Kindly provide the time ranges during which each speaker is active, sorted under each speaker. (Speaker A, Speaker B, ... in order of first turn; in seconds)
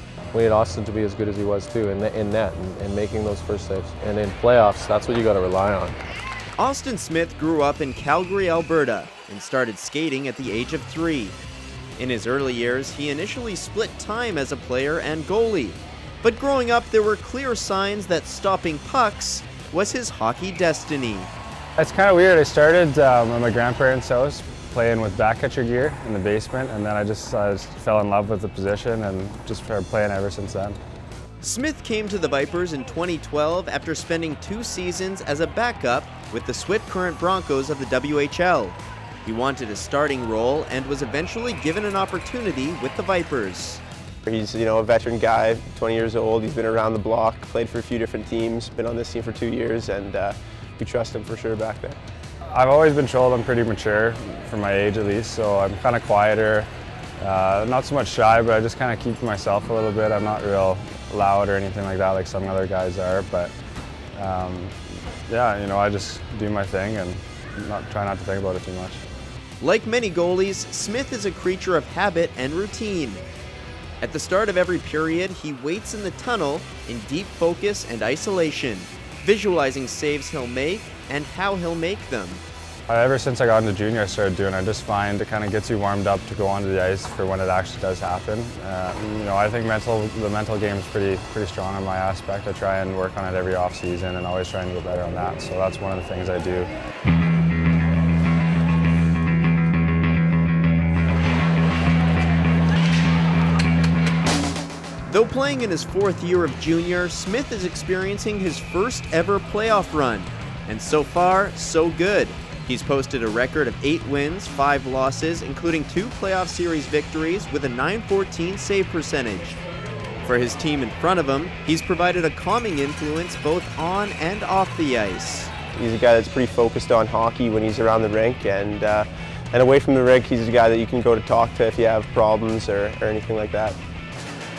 Speaker A: 0.3-6.0
Speaker B: 6.6-11.3, 12.0-21.3, 31.4-43.8, 69.6-73.2, 74.0-82.4, 105.1-119.6, 120.2-125.5
Speaker C: 21.8-30.8, 52.5-56.7, 57.2-63.5, 64.2-64.7, 65.3-69.0, 82.9-96.7
Speaker D: 44.2-52.0, 125.8-133.8